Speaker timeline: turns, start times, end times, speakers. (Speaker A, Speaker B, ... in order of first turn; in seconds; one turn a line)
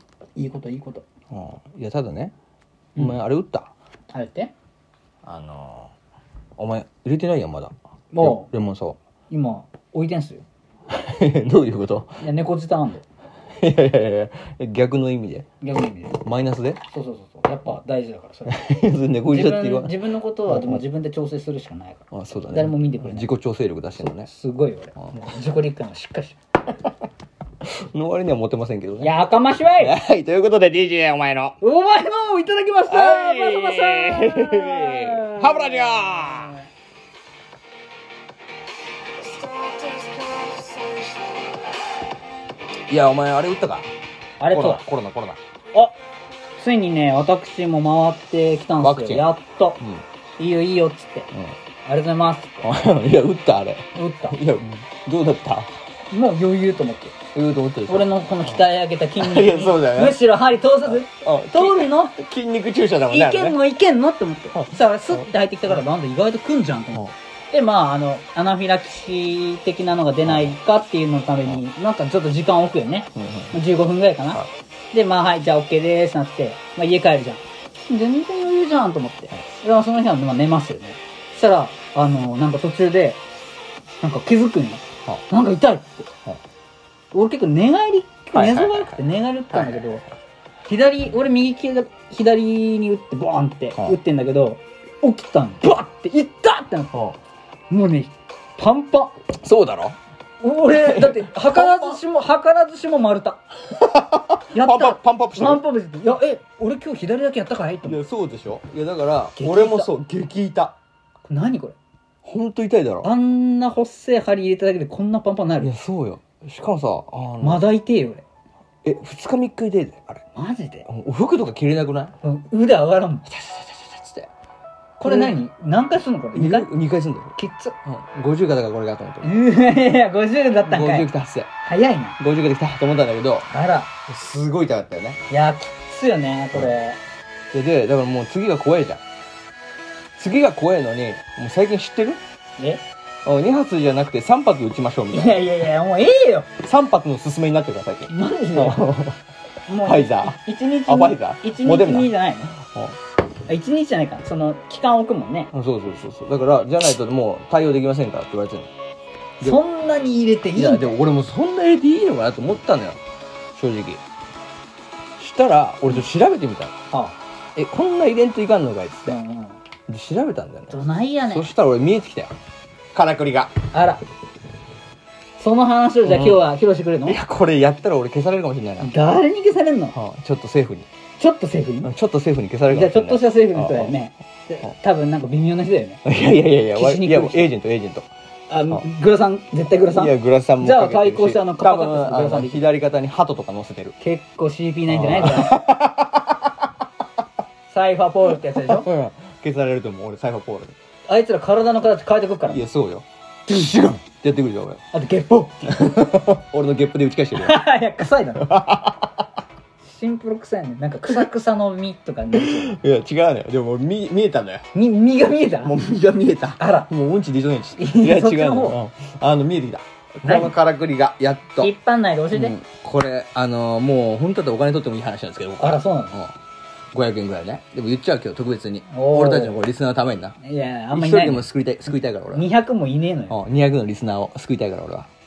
Speaker A: 0.3-1.0
Speaker B: 1.3-2.3
Speaker B: 3.0-3.7
Speaker A: 4.1-4.5
Speaker B: 5.2-5.9
Speaker B: 6.6-9.0
Speaker A: 8.1-8.5
Speaker A: 9.3-10.4
Speaker B: 10.9-12.2
Speaker A: 12.2-13.0
Speaker B: 13.6-15.5
Speaker A: 15.6-16.2
Speaker B: 16.2-16.8
Speaker A: 16.9-18.5
Speaker B: 18.5-20.8
Speaker A: 19.3-23.3
Speaker B: 22.1-24.3
Speaker A: 24.0-26.4
Speaker B: 27.6-29.2
Speaker A: 29.0-29.9
Speaker B: 29.8-31.6
Speaker A: 31.6-36.6
Speaker B: 32.9-36.6
Speaker A: 39.2-41.2
Speaker B: 42.9-43.9
Speaker A: 44.4-44.8
Speaker B: 44.5-45.4
Speaker A: 46.6-49.8
Speaker B: 48.8-50.0
Speaker A: 50.4-51.3
Speaker A: 51.9-52.6
Speaker B: 52.6-55.7
Speaker A: 53.9-54.4
Speaker A: 56.1-57.1
Speaker B: 57.3-58.6
Speaker A: 57.9-62.1
Speaker B: 59.2-60.2
Speaker B: 60.9-63.6
Speaker A: 63.1-83.2
Speaker B: 64.5-65.3
Speaker B: 70.2-70.5
Speaker B: 73.2-73.5
Speaker A: 84.0-86.1
Speaker A: 87.1-90.0
Speaker B: 88.3-90.0
Speaker A: 90.7-96.9
Speaker A: 97.7-99.1
Speaker B: 99.4-100.0
Speaker A: 100.4-103.5
Speaker B: 100.7-102.0
Speaker B: 103.7-105.6
Speaker A: 104.5-108.0
Speaker B: 107.8-110.7
Speaker A: 109.3-109.9
Speaker A: 111.2-111.8
Speaker B: 112.2-113.1
Speaker A: 113.0-115.7
Speaker B: 115.6-117.6
Speaker A: 117.4-118.2
Speaker B: 118.8-120.2
Speaker A: 120.3-120.9
Speaker B: 120.9-122.1
Speaker A: 122.2-123.2
Speaker B: 123.2-124.3
Speaker B: 125.0-125.4
Speaker A: 125.0-126.7
Speaker B: 126.3-129.5
Speaker A: 127.3-127.8
Speaker A: 129.2-131.1
Speaker B: 130.7-131.5
Speaker A: 131.6-132.2
Speaker B: 132.2-133.5
Speaker A: 133.5-133.9
Speaker B: 134.1-135.2
Speaker A: 135.3-137.0
Speaker B: 137.5-139.0
Speaker B: 140.2-142.2
Speaker B: 143.2-145.7
Speaker A: 145.1-146.5
Speaker B: 146.6-149.2
Speaker A: 148.1-148.8
Speaker A: 149.7-152.6
Speaker B: 149.8-153.0
Speaker A: 153.5-155.5
Speaker B: 155.5-158.7
Speaker A: 159.4-161.0
Speaker B: 160.5-163.0
Speaker B: 163.5-164.0
Speaker B: 165.2-166.7
Speaker A: 166.9-167.2
Speaker B: 167.6-169.2
Speaker A: 169.1-169.6
Speaker B: 169.9-172.3
Speaker A: 170.7-171.5
Speaker B: 172.9-173.6
Speaker A: 173.7-174.0
Speaker A: 175.4-177.2
Speaker B: 176.1-176.4
Speaker B: 177.0-178.9
Speaker A: 178.8-179.9
Speaker B: 179.9-180.9
Speaker A: 181.2-181.9
Speaker B: 181.8-184.0
Speaker A: 182.7-186.0
Speaker B: 186.0-188.1
Speaker A: 186.7-187.5
Speaker A: 188.5-192.6
Speaker B: 189.8-193.9
Speaker A: 194.0-195.6
Speaker B: 194.9-196.5
Speaker A: 197.7-198.9
Speaker B: 198.5-200.8
Speaker A: 201.1-202.6
Speaker B: 202.4-204.8
Speaker A: 204.9-205.7
Speaker B: 205.7-207.6
Speaker A: 207.3-208.5
Speaker B: 208.4-209.2
Speaker A: 209.8-212.8
Speaker B: 212.3-214.7
Speaker A: 214.7-215.8
Speaker B: 215.6-221.7
Speaker A: 216.6-216.9
Speaker A: 217.8-218.8
Speaker A: 220.2-220.5
Speaker A: 221.6-222.6
Speaker B: 222.3-226.3
Speaker A: 225.6-226.1
Speaker B: 226.9-230.4
Speaker A: 228.9-229.6
Speaker A: 230.4-231.4
Speaker B: 230.9-232.4
Speaker A: 232.3-233.3
Speaker B: 233.3-235.1